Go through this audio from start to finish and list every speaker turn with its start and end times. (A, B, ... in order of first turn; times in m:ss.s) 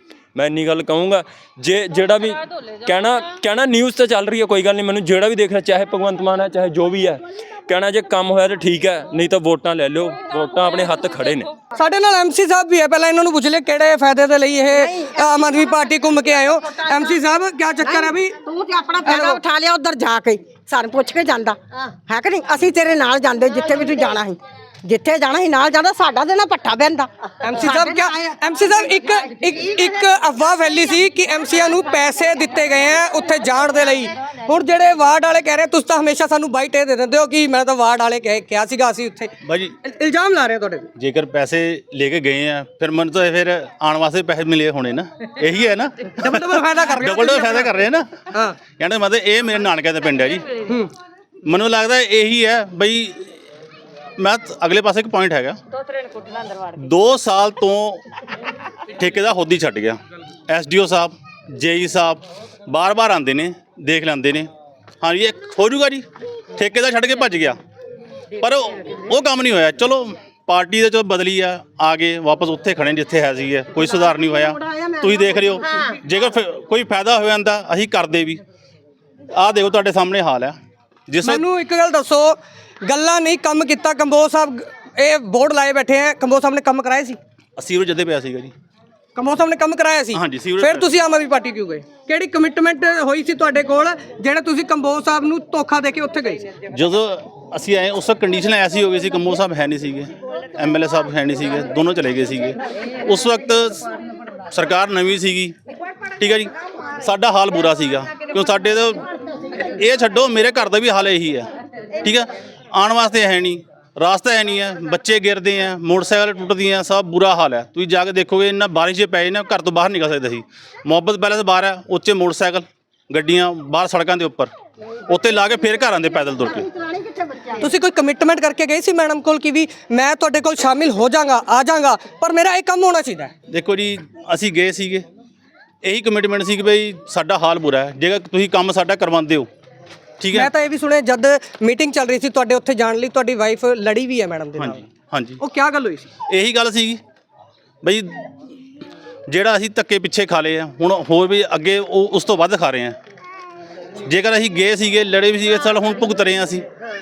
0:00.4-0:11.5 A
0:11.8-0:18.4 B
0:14.8-0:15.1 C
0:17.8-0:28.3 C
0:19.0-0:19.4 B
0:27.4-0:40.9 B
0:39.4-0:39.7 D
0:41.0-0:48.2 D
0:46.1-0:47.7 B
0:48.3-0:48.6 B
0:48.8-0:50.5 D
0:50.6-0:50.9 B
0:51.4-0:53.3 D
0:54.2-0:55.6 D
0:56.7-0:58.0 D
0:59.0-1:04.5 D
1:05.0-1:07.6 D
1:08.4-1:18.4 D
1:14.0-1:16.0 C
1:19.3-1:20.6 D
1:21.1-1:21.4 D
1:21.2-1:27.2 B
1:27.6-1:28.5 D
1:29.2-1:36.5 B
1:30.1-1:30.9 D
1:36.7-1:43.8 D
1:44.5-1:45.5 D
1:46.2-1:49.0 D
1:49.6-1:51.5 D
1:52.0-2:04.5 D
2:05.1-2:06.7 D
2:06.7-2:07.6 C
2:07.6-2:13.3 B
2:13.5-2:15.0 D
2:15.8-2:19.5 D
2:20.2-2:20.5 D
2:20.3-2:24.8 B
2:24.6-2:25.4 D
2:25.4-2:26.1 B
2:26.3-2:27.0 D
2:27.8-2:28.3 D
2:29.3-2:33.0 D
2:34.0-2:36.6 D